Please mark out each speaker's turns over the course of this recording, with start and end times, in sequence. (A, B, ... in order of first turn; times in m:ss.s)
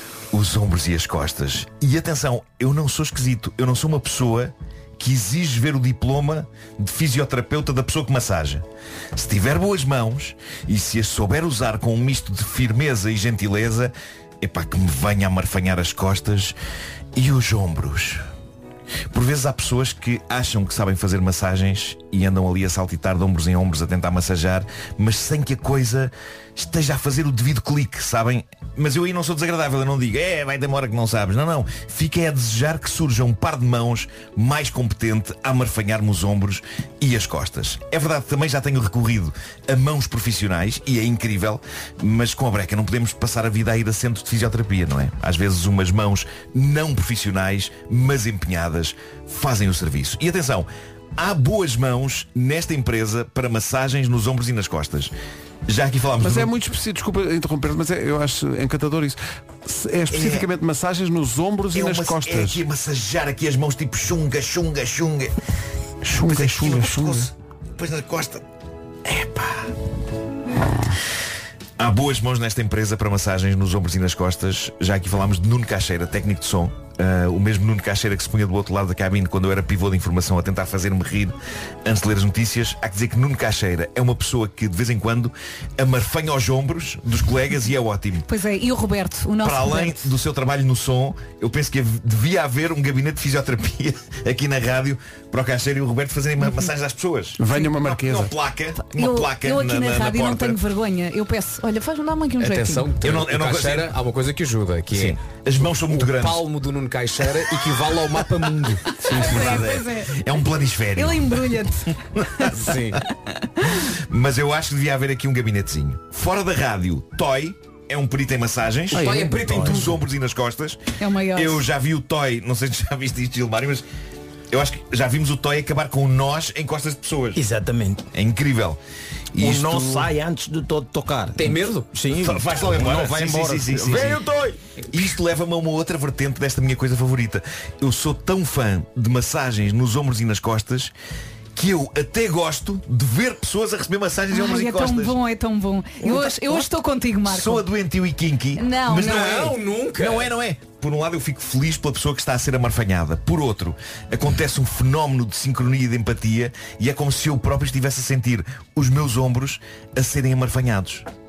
0:00.3-0:08.6 A
0:09.2-0:16.6 A
0:17.2-0:18.2 A
0:19.1-0:55.1 A
0:55.7-0:56.5 A
0:56.2-1:02.6 B
1:00.1-1:00.5 A
1:01.7-1:05.3 A
1:06.0-1:07.3 B
1:06.1-1:08.4 A
1:09.0-1:09.7 A
1:10.6-1:10.9 B
1:11.8-1:28.3 A
1:28.3-1:30.1 C
1:29.4-1:40.6 A
1:37.4-1:38.3 B
1:38.8-1:42.9 C
1:42.4-1:49.0 D
1:43.0-1:43.9 A
1:44.9-1:46.4 A
1:49.0-1:50.2 C
1:49.0-1:51.6 A
1:49.1-1:49.6 B
1:51.0-1:52.5 C
1:52.4-1:52.9 A
1:52.5-1:53.0 D
1:54.1-2:00.8 A
1:58.9-1:59.9 D
1:59.0-1:59.9 B
1:59.1-1:59.8 E
2:01.0-2:01.6 C
2:01.3-2:03.8 A
2:04.5-2:07.4 A
2:07.4-2:08.0 E
2:08.1-2:08.8 A
2:09.4-2:10.1 A
2:09.4-2:14.6 E
2:11.3-2:11.9 D
2:12.1-2:14.3 A
2:14.9-2:20.9 A
2:21.6-2:25.2 A
2:24.3-2:27.7 C
2:27.2-2:41.0 A
2:28.6-2:29.3 C
2:28.9-2:30.3 D